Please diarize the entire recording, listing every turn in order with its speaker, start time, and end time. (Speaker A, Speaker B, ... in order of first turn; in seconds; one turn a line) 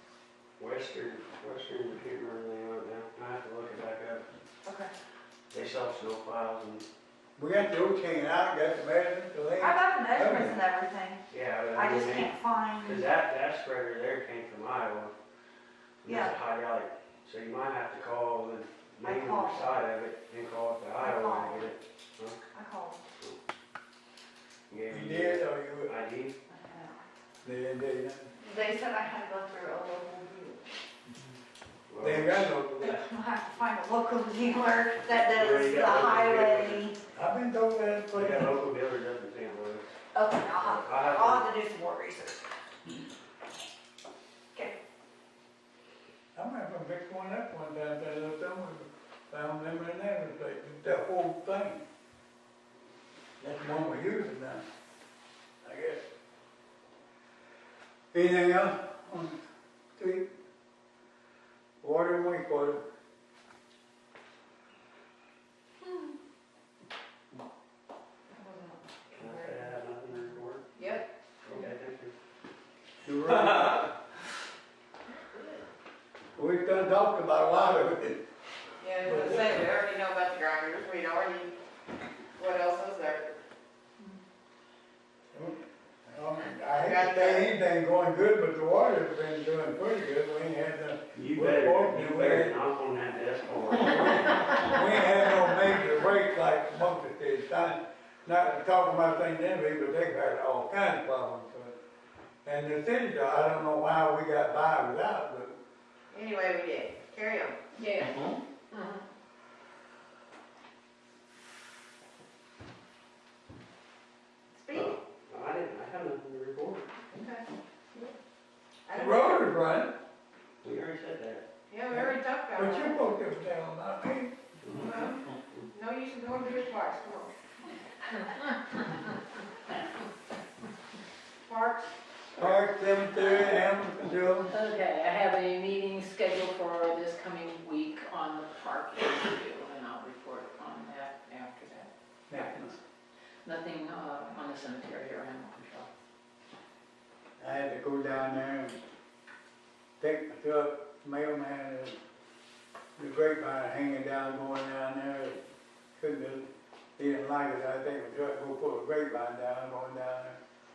Speaker A: 0.6-4.2
Speaker B: 4.6-4.9
Speaker A: 5.5-6.8
Speaker C: 7.3-10.6
Speaker B: 9.6-13.1
Speaker A: 11.3-15.1
Speaker A: 16.0-22.4
Speaker B: 16.0-16.3
Speaker B: 19.0-19.8
Speaker B: 21.0-21.7
Speaker B: 22.5-23.0
Speaker A: 24.7-26.4
Speaker C: 24.9-25.9
Speaker B: 26.5-26.9
Speaker C: 27.4-28.3
Speaker B: 28.4-30.7
Speaker A: 31.9-32.5
Speaker C: 32.0-33.0
Speaker B: 32.8-37.0
Speaker A: 35.3-36.9
Speaker C: 37.1-38.5
Speaker A: 38.1-39.9
Speaker B: 40.1-42.4
Speaker A: 40.5-41.5
Speaker C: 46.3-51.8
Speaker C: 53.4-54.6
Speaker C: 55.6-56.0
Speaker C: 58.1-59.4
Speaker C: 60.0-60.3
Speaker C: 61.8-62.8
Speaker D: 68.4-69.3
Speaker A: 69.1-70.7
Speaker D: 70.8-71.0
Speaker A: 71.4-72.1
Speaker C: 73.0-73.9
Speaker A: 73.3-73.9
Speaker C: 76.3-78.2
Speaker D: 78.8-81.5
Speaker C: 79.0-79.6
Speaker D: 82.3-83.3
Speaker C: 85.3-92.6
Speaker D: 86.7-87.5
Speaker A: 91.1-94.8
Speaker C: 93.8-101.7
Speaker C: 102.4-105.5
Speaker D: 106.1-107.5
Speaker E: 107.7-108.4
Speaker D: 114.5-114.9
Speaker A: 114.7-116.9
Speaker D: 117.1-118.1
Speaker D: 118.8-119.5
Speaker C: 118.9-119.9
Speaker A: 120.6-121.5
Speaker D: 121.7-123.0
Speaker C: 121.9-124.3
Speaker A: 124.6-124.9
Speaker D: 124.8-127.3
Speaker D: 131.4-131.9
Speaker C: 132.3-134.5
Speaker E: 134.5-142.8
Speaker C: 142.3-142.7
Speaker E: 143.4-145.9
Speaker C: 147.4-148.8
Speaker C: 150.0-152.0
Speaker C: 153.0-155.4
Speaker C: 155.9-160.4